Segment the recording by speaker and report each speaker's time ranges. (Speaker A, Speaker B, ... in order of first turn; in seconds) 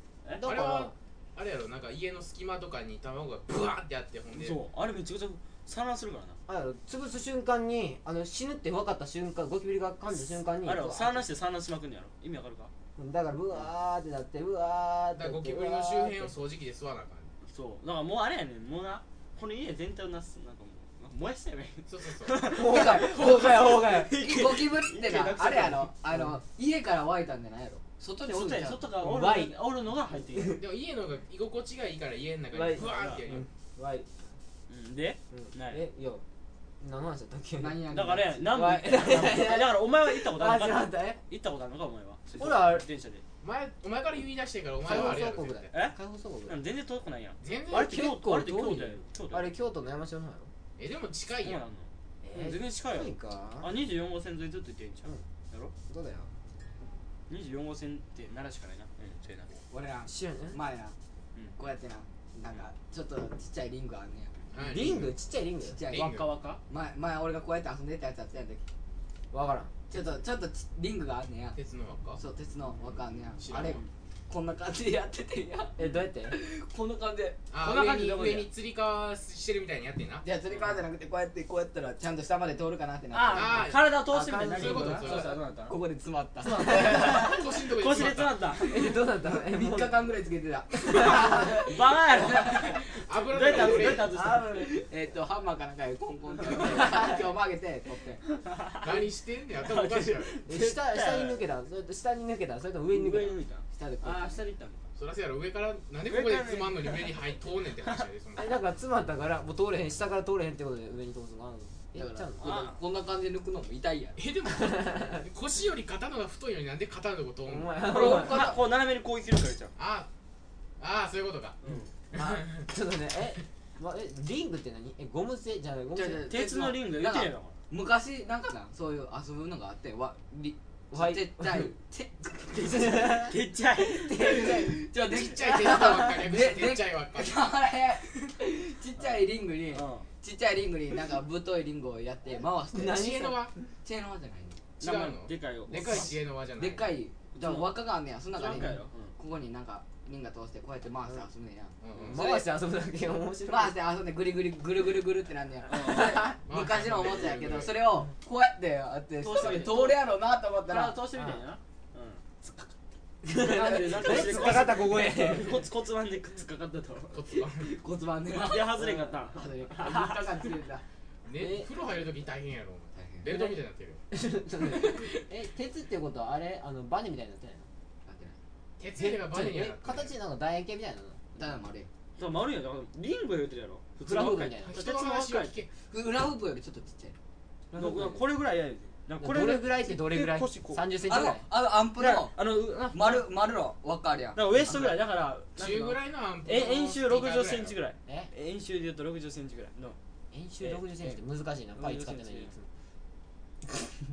Speaker A: 0.2-0.5, 4.3-6.4, 10.6-12.7, 17.5-25.9, 28.2-30.6, 32.7-33.3, 34.7-35.8, 37.9-43.2, 45.7-49.5, 51.4-55.7, 57.3-59.5, 65.9-66.6, 73.5-73.9, 77.6-78.5, 83.1-85.8, 86.4-88.9, 90.9-94.6, 98.4-101.5, 102.9-104.9, 106.0-108.1, 112.4-112.8, 117.9-119.7, 121.6-121.9, 126.3-127.5, 133.3-134.4, 139.7-140.1, 144.8-146.1, 147.4-147.8, 148.3-149.1, 155.7-156.2, 159.2-160.1, 160.7-162.7, 163.3-167.2, 168.3-170.4, 182.2-185.6, 187.7-190.8, 192.0-193.3, 194.3-200.0, 201.8-202.5
Speaker B: 0.4-0.9, 6.5-11.2, 13.0-16.4, 22.5-24.1, 26.1-26.4, 29.0-29.6, 30.3-30.6, 32.5-34.3, 35.3-36.2, 36.8-37.9, 38.5-41.2, 42.4-42.9, 44.8-46.6, 47.8-50.5, 52.2-53.7, 55.9-56.3, 60.1-60.6, 64.6-65.8, 69.3-69.7, 75.8-76.4, 84.1-84.7, 88.6-90.0, 91.0-91.5, 94.0-94.7, 100.5-103.4, 108.4-112.5, 114.5-115.2, 117.5-118.5, 122.1-126.3, 130.9-131.7, 132.5-133.4, 134.1-134.8, 142.7-143.2, 152.1-153.8, 155.8-156.3, 161.2-161.4, 163.2-165.7, 168.8-169.2, 171.4-171.7, 173.3-173.6, 174.1-177.7, 179.0-181.2, 184.0-184.8, 189.2-191.4, 200.3-202.7
Speaker C: 0.4-4.6, 15.2-17.3, 21.9-22.6, 30.6-33.5, 43.4-45.8, 47.4-48.0, 50.8-51.7, 64.5-65.1, 65.9-66.3, 71.5-72.2, 73.4-73.8, 77.5-80.3, 83.3-85.3, 87.2-88.5, 92.7-94.2, 98.8-100.4, 105.0-108.6, 114.2-118.0, 119.8-120.1, 120.8-121.6, 122.1-122.7, 135.0-137.5, 143.0-143.5, 144.8-147.0, 151.8-152.3, 156.4-157.9, 167.1-167.8, 171.2-174.0, 174.8-175.0, 178.8-180.2, 184.6-185.7, 195.6-197.8
Speaker D: 22.6-29.0, 37.6-38.5, 59.7-61.0, 61.6-64.3, 65.7-66.1, 66.7-68.6, 69.9-71.6, 72.1-77.8, 80.2-83.7, 84.6-87.4, 89.2-92.8, 93.6-93.9, 94.5-98.2, 103.7-104.4, 112.0-114.2, 117.9-118.6, 126.0-133.3, 133.8-144.6, 146.6-152.5, 153.4-161.0, 163.3-164.7, 167.3-170.8, 173.0-173.3, 178.1-178.4, 181.4-181.9, 185.9-187.2, 187.8-188.2, 191.0-192.4, 192.9-195.0